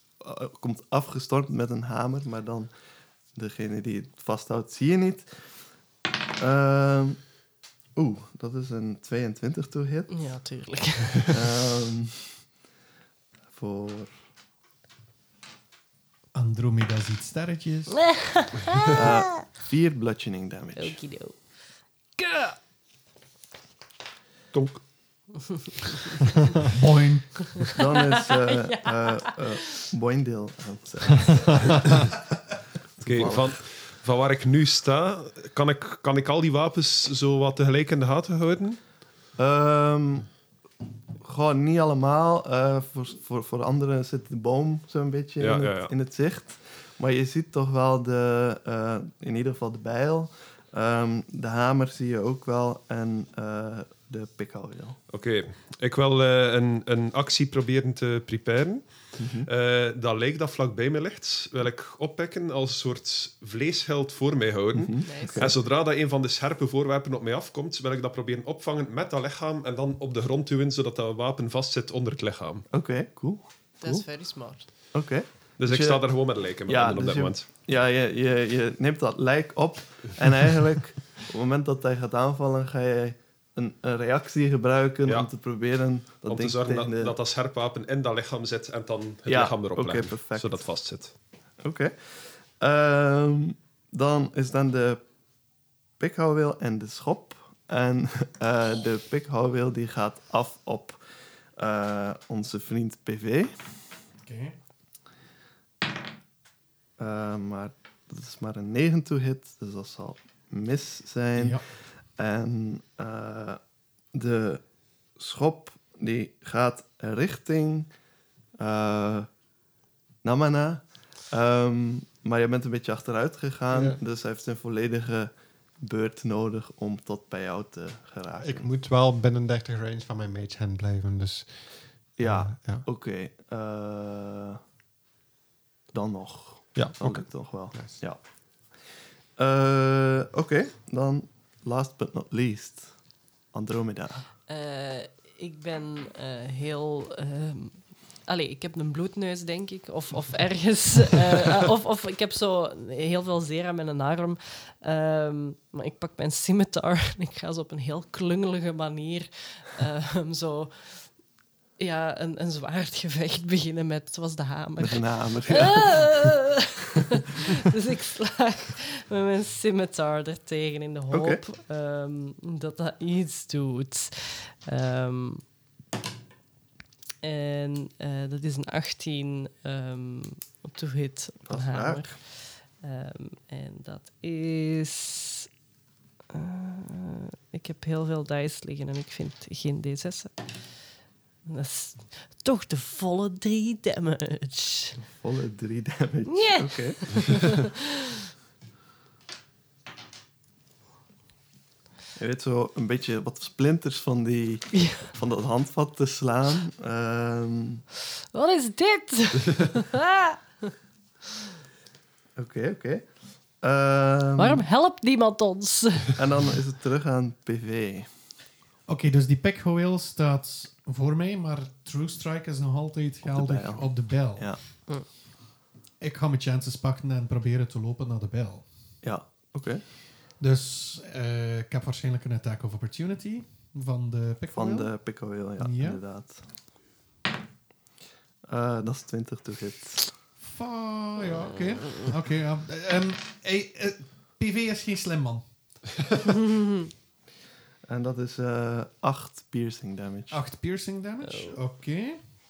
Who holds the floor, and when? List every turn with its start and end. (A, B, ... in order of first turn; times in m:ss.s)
0:00.2-0:02.7 A
0:03.4-0:05.3 A
0:06.4-0:07.2 A
0:08.0-0:10.2 A
0:10.1-0:11.6 B
0:11.3-0:12.4 A
0:13.5-0:14.1 A
0:16.3-0:18.0 C
0:17.9-0:19.6 B
0:18.9-0:21.0 A
0:20.8-0:21.6 B
0:22.2-0:22.6 B
0:24.5-0:24.8 D
0:25.5-0:26.2 B
0:26.7-0:27.5 C
0:27.6-0:29.9 B
0:27.7-0:32.2 A
0:33.0-0:33.6 A
0:33.0-0:38.8 D
0:39.4-0:40.3 A
0:41.2-0:55.0 A
0:45.4-0:45.9 D
0:55.1-1:12.7 D
0:59.2-0:59.5 A
1:04.7-1:05.5 A
1:05.0-1:05.5 B
1:12.7-1:14.0 A
1:13.8-1:14.7 B
1:14.9-1:16.0 A
1:15.6-1:17.5 D
1:16.7-1:27.2 A
1:26.2-1:31.1 D
1:29.3-1:30.6 A
1:31.6-1:31.9 A
1:32.6-1:35.0 A
1:36.0-1:41.0 A
1:41.6-1:43.5 A
1:44.2-1:44.6 C
1:47.0-1:51.6 A
1:51.4-1:51.6 C
1:52.2-1:53.6 A
1:54.1-1:54.6 A
1:55.2-1:57.9 A
1:58.6-1:59.3 A
2:00.2-2:08.7 A
2:03.7-2:04.0 E
2:08.4-2:11.5 E
2:12.2-2:14.6 A
2:12.2-2:12.9 E
2:15.9-2:18.2 A
2:16.8-2:18.0 E
2:19.4-2:22.9 A
2:23.5-2:24.3 A
2:24.5-2:41.1 B
2:41.8-2:55.4 B
2:44.8-2:46.1 A
2:51.1-2:51.4 A
2:57.2-3:05.5 B
3:01.5-3:02.2 A
3:06.3-3:10.6 B
3:11.5-3:15.0 B
3:15.0-3:17.5 A
3:16.3-3:18.1 B
3:22.2-3:27.8 A
3:24.7-3:25.1 B
3:28.3-3:30.7 B
3:32.4-3:33.0 A
3:33.6-3:34.6 A
3:34.4-3:36.2 B
3:36.2-3:38.1 A
3:38.9-3:44.6 C
3:43.2-3:44.6 A
3:46.0-3:48.7 C
3:49.0-3:49.8 A
3:50.4-3:55.0 C
3:54.5-3:56.4 A
3:55.6-3:56.0 C
3:58.5-4:00.1 A
4:00.4-4:05.5 C
4:07.9-4:10.4 A
4:10.3-4:12.2 C
4:11.2-4:11.6 B